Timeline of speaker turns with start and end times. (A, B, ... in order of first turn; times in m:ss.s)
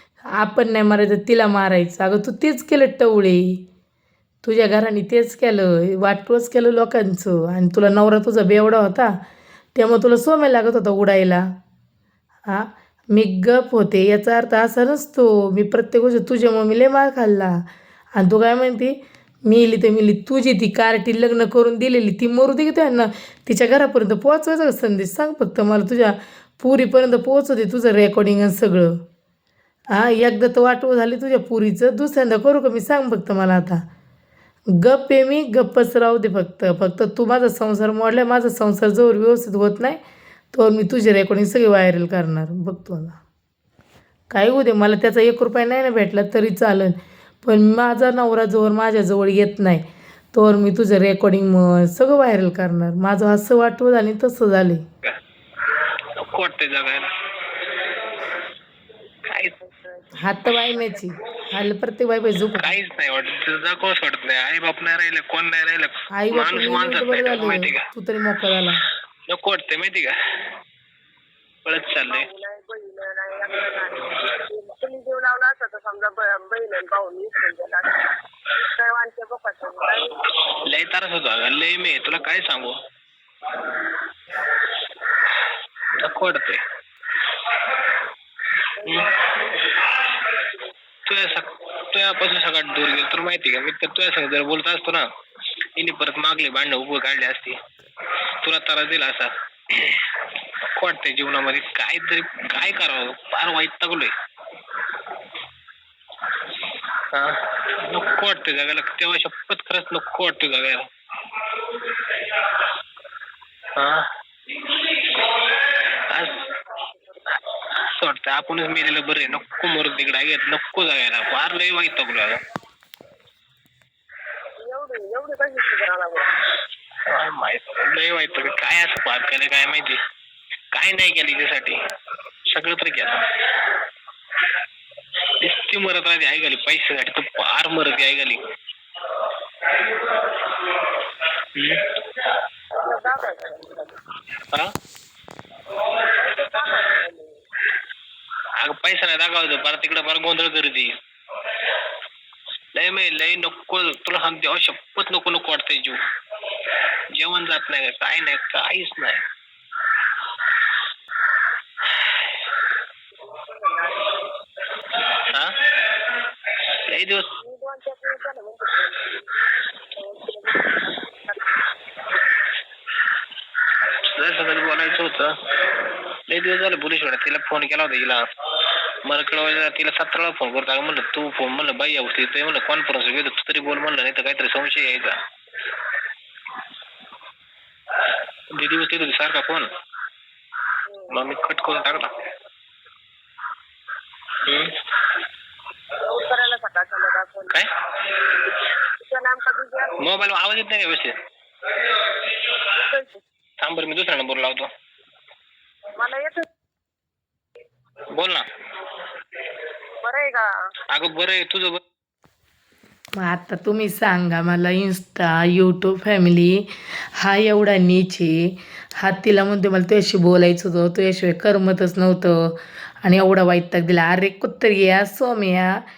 0:00.3-0:03.6 A
0:04.4-0:09.2 A
0:09.7-0:11.5 A
0:12.5-0:29.0 A
0:29.9-0:33.8 A
0:34.7-0:40.0 A
0:40.5-0:43.2 A
0:44.3-0:54.8 A
0:56.2-0:57.1 B
0:59.3-0:59.5 B
0:59.4-1:00.2 C
1:00.2-1:02.8 A
1:02.6-1:07.8 B
1:06.1-1:08.8 A
1:09.3-1:10.1 B
1:11.6-1:12.3 B
1:12.1-1:20.2 C
1:20.6-1:22.8 B
1:26.0-1:26.6 B
1:28.8-1:29.1 C
1:28.8-1:29.2 B
1:31.0-1:35.1 B
1:35.8-1:37.6 B
1:38.4-1:40.1 B
1:40.8-1:44.1 B
1:47.1-1:50.9 B
1:53.7-1:54.1 B
1:54.8-1:56.5 B
1:56.8-1:57.2 C
1:57.6-2:02.4 B
2:04.6-2:06.3 C
2:07.1-2:10.0 B
2:10.7-2:11.8 B
2:12.5-2:13.3 B
2:15.4-2:18.4 B
2:21.5-2:22.0 B
2:22.7-2:24.0 C
2:26.1-2:27.4 C
2:28.6-2:30.9 B
2:32.7-2:36.0 B
2:37.1-2:39.2 B
2:43.3-2:44.3 C
2:45.3-2:45.6 B
2:46.9-2:47.4 B
2:47.4-2:49.3 C
2:49.9-2:52.0 C
2:54.1-2:55.4 B
2:56.3-2:58.2 B
2:59.0-3:05.2 B
3:08.5-3:09.7 B
3:10.9-3:11.2 C
3:11.1-3:12.1 B
3:14.4-3:14.8 B
3:16.0-3:17.6 C
3:18.8-3:20.0 C
3:20.0-3:21.1 B
3:22.6-3:23.2 C
3:23.6-3:24.7 B
3:26.0-3:26.4 C
3:28.1-3:28.4 B
3:30.0-3:30.5 C
3:30.9-3:31.8 B
3:33.2-3:45.8 A